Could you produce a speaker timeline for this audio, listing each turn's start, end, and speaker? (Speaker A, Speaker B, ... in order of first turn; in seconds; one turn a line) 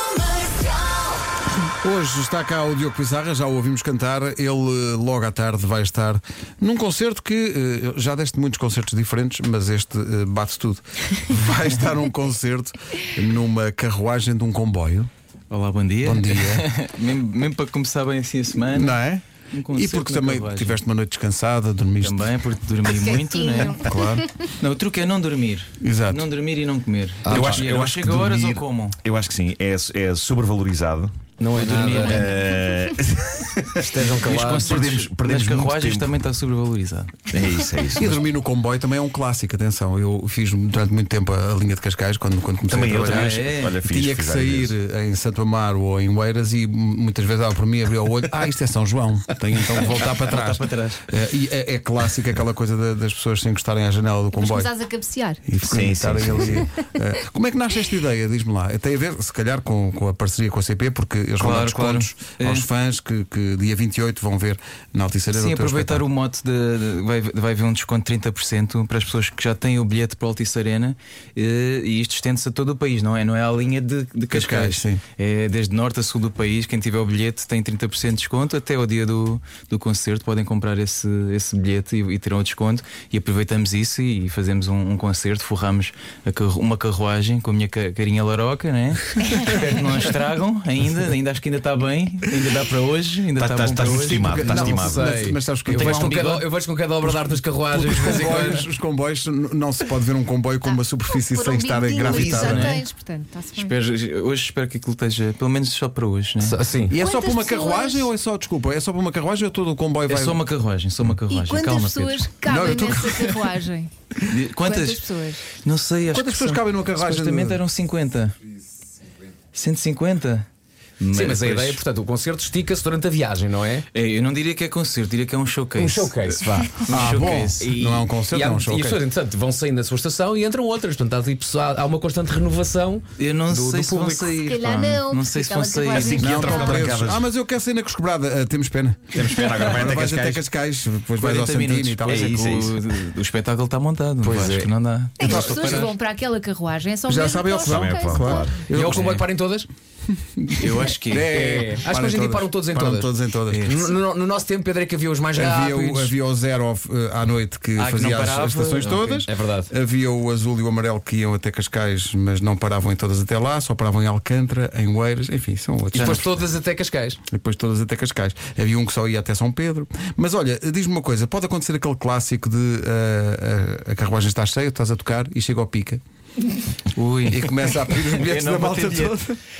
Speaker A: 1.8-15.1
Speaker B: 15.5-19.0
Speaker A: 16.0-16.6
Speaker A: 18.7-22.2
Speaker B: 19.5-20.8
Speaker B: 22.0-23.9
Speaker C: 22.9-24.5
Speaker A: 23.8-24.2
Speaker B: 24.6-29.0
Speaker A: 25.8-26.3
Speaker D: 27.2-27.6
Speaker E: 27.3-31.1
Speaker D: 31.4-32.3
Speaker B: 31.5-32.3
Speaker E: 31.9-36.1
Speaker D: 33.8-34.7
Speaker B: 34.0-37.3
Speaker E: 37.3-38.2
Speaker A: 38.0-54.7
Speaker E: 42.7-44.8
Speaker B: 42.7-43.8
Speaker E: 49.7-51.0
Speaker C: 54.3-55.5
Speaker A: 55.5-66.0
Speaker E: 55.6-56.6
Speaker B: 61.4-62.7
Speaker B: 65.3-96.5
Speaker A: 74.3-75.0
Speaker E: 93.3-95.0
Speaker A: 93.7-96.2
Speaker D: 94.5-98.7
Speaker A: 97.0-102.7
Speaker C: 100.6-103.8
Speaker B: 102.1-102.9
Speaker B: 103.5-106.6
Speaker D: 106.4-106.9
Speaker A: 106.9-110.4
Speaker C: 107.0-108.0
Speaker B: 110.1-112.3
Speaker C: 111.3-113.9
Speaker A: 112.5-113.3
Speaker B: 114.2-115.0
Speaker C: 114.6-115.5
Speaker B: 115.5-118.3
Speaker A: 116.1-117.6
Speaker B: 119.5-120.5
Speaker B: 121.0-121.8
Speaker D: 121.1-123.8
Speaker B: 123.9-127.7
Speaker D: 125.7-126.5
Speaker A: 126.9-129.0
Speaker D: 127.6-134.4
Speaker B: 133.2-136.3
Speaker C: 134.4-136.9
Speaker E: 135.9-137.2
Speaker A: 136.2-142.5
Speaker E: 139.1-140.4
Speaker B: 141.2-145.9
Speaker E: 142.0-142.8
Speaker D: 144.2-144.7
Speaker A: 144.3-144.6
Speaker C: 145.2-148.6
Speaker A: 145.2-145.9
Speaker A: 147.1-149.1
Speaker E: 147.6-148.6
Speaker D: 148.7-149.7
Speaker B: 148.8-149.2
Speaker A: 150.1-153.8
Speaker B: 150.6-151.3
Speaker D: 151.2-153.1
Speaker B: 153.5-153.9
Speaker D: 153.6-156.1
Speaker A: 155.3-166.5
Speaker B: 157.8-159.3
Speaker D: 159.2-159.7
Speaker D: 165.9-167.2
Speaker A: 167.3-176.0
Speaker B: 176.9-179.2
Speaker A: 177.2-179.4